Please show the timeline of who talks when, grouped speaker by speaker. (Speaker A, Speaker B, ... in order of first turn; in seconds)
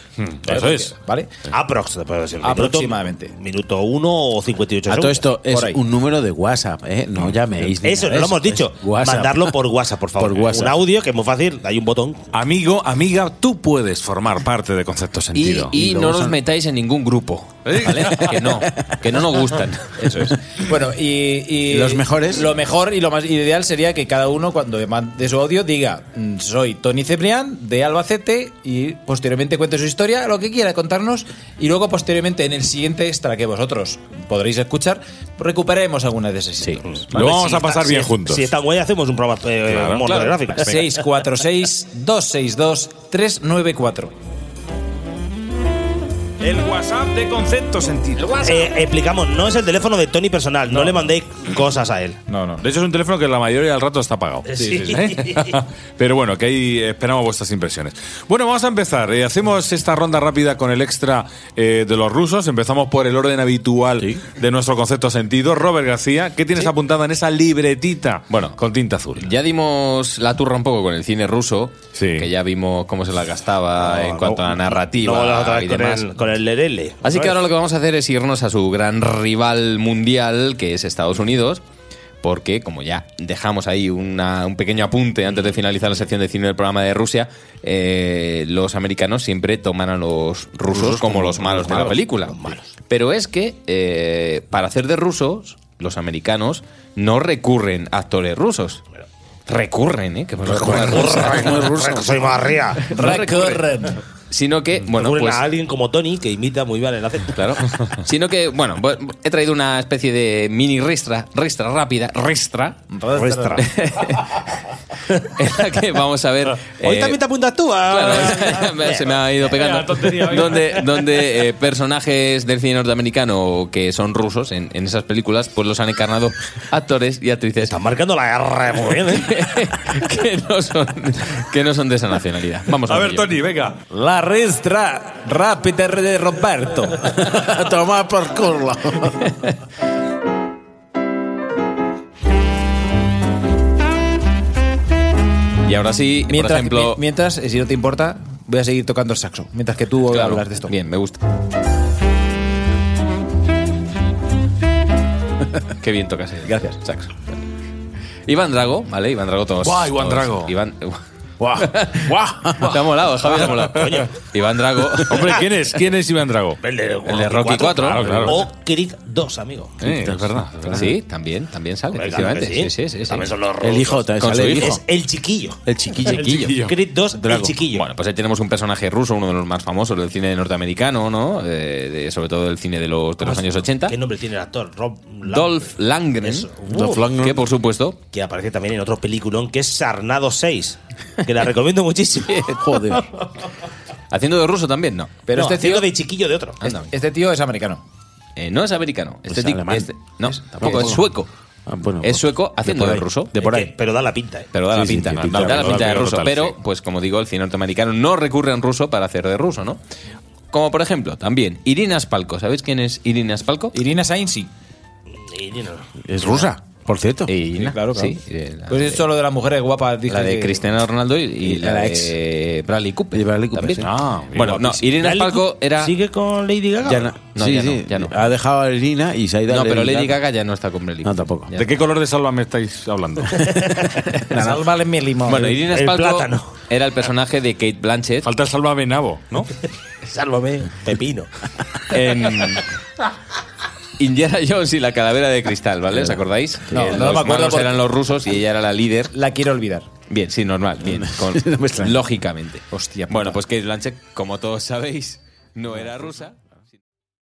Speaker A: 0.2-0.9, 12.3-15.7, 17.7-18.2, 37.1-38.5, 39.7-40.3, 46.4-48.4, 52.6-69.3, 72.0-72.3, 119.5-120.6, 132.9-133.8, 159.6-160.5, 165.1-166.6, 167.8-168.4, 169.8-170.9, 176.1-176.7, 205.3-206.6, 223.8-224.7, 231.6-233.4, 238.2-239.5
Speaker B: 0.5-1.3, 2.4-3.3, 5.5-5.8, 20.0-37.0, 40.5-44.1, 52.3-52.7, 102.9-104.0, 112.9-113.7, 133.9-137.1, 146.3-150.7, 195.3-195.9, 196.7-197.8, 213.7-214.5, 217.6-220.6, 234.3-235.6, 246.7-247.9, 249.1-249.9, 252.7-253.4
Speaker C: 1.5-5.3, 7.8-12.3, 36.9-41.0, 48.4-52.2, 54.5-55.5, 73.8-77.4, 91.6-92.6, 100.5-102.9, 104.8-107.4, 113.2-113.7, 116.8-119.2, 127.6-129.3, 163.3-164.1, 165.1-165.4, 166.6-169.8, 171.9-175.6, 176.6-177.9, 183.2-185.7, 186.2-187.1, 188.1-192.5, 195.3-196.6, 203.4-204.5, 215.1-215.9, 225.0-227.1, 235.7-236.5, 240.1-241.3
Speaker D: 4.9-9.6, 10.2-10.8, 15.7-16.4, 21.7-22.5, 90.9-91.8, 101.3-102.0, 137.2-139.3, 161.4-162.8, 168.0-168.4, 169.8-171.0, 173.6-174.8, 175.7-176.6, 177.2-177.5, 186.7-187.4, 192.5-193.1, 199.3-201.1, 201.7-203.7, 204.7-206.0, 216.1-217.3, 221.4-222.2, 223.1-223.9, 226.8-230.2, 231.0-231.5, 234.3-234.6, 250.8-252.0
Speaker E: 15.3-20.1, 68.3-68.6, 69.2-76.1, 77.0-81.6, 82.2-98.9, 99.5-101.7, 102.8-103.6, 104.3-105.5, 107.3-112.8, 113.6-117.2, 117.8-127.8, 129.0-133.4, 145.6-147.0, 150.1-151.2, 155.8-157.3, 158.3-161.0, 161.5-165.4, 167.1-168.1, 170.7-173.3, 174.2-174.8, 176.1-176.5, 177.7-184.0, 185.3-186.6, 187.1-188.0, 192.3-192.6, 194.1-195.2, 196.6-196.9, 198.4-201.3, 202.0-203.3, 204.5-209.8, 210.5-213.8, 217.3-219.0, 220.1-225.9, 227.2-228.2, 229.5-231.7, 233.3-234.4, 235.3-238.3, 241.9-242.7, 244.0-249.1, 250.1-256.4